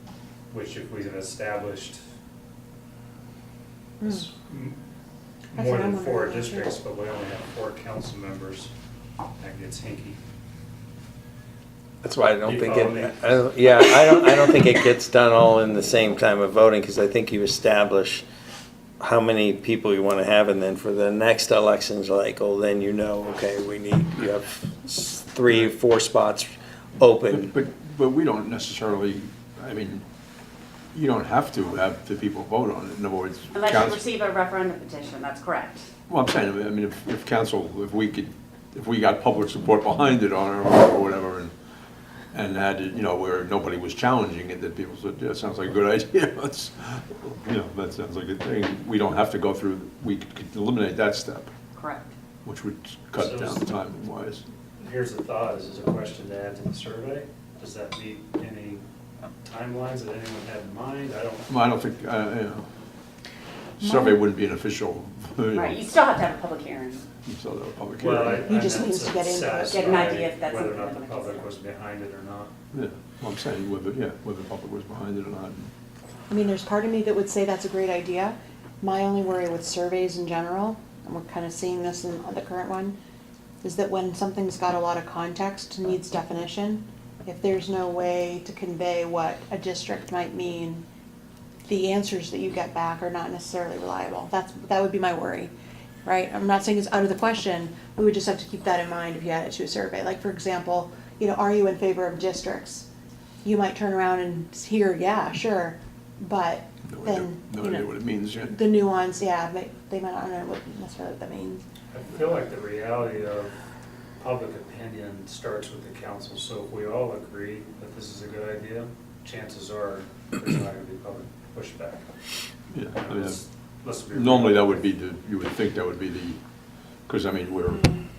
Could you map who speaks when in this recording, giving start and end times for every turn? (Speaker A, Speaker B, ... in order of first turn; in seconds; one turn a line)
Speaker A: 0.5-2.0
Speaker B: 4.0-4.3
Speaker A: 4.0-4.8
Speaker A: 5.5-8.7
Speaker B: 5.5-6.7
Speaker A: 9.4-10.2
Speaker C: 12.0-18.2
Speaker A: 12.4-13.5
Speaker C: 19.0-27.5
Speaker D: 27.3-30.0
Speaker D: 30.9-34.0
Speaker E: 33.5-35.9
Speaker D: 36.1-41.5
Speaker D: 42.3-51.5
Speaker E: 51.8-52.1
Speaker D: 52.4-54.4
Speaker A: 53.1-53.7
Speaker A: 54.8-58.8
Speaker A: 59.4-61.5
Speaker D: 61.5-62.7
Speaker D: 63.8-65.9
Speaker B: 63.8-64.2
Speaker E: 65.5-67.1
Speaker D: 67.2-68.5
Speaker A: 68.0-72.5
Speaker B: 68.4-70.2
Speaker E: 69.7-71.5
Speaker D: 72.7-75.7
Speaker B: 76.3-83.0
Speaker B: 83.6-90.8
Speaker B: 91.7-95.5
Speaker B: 96.0-102.9
Speaker B: 103.4-111.6
Speaker D: 106.9-108.5
Speaker A: 111.9-113.5
Speaker A: 114.2-122.0
Speaker D: 122.7-123.4
Speaker A: 122.9-124.9
Speaker D: 124.1-126.4
Speaker D: 127.1-127.9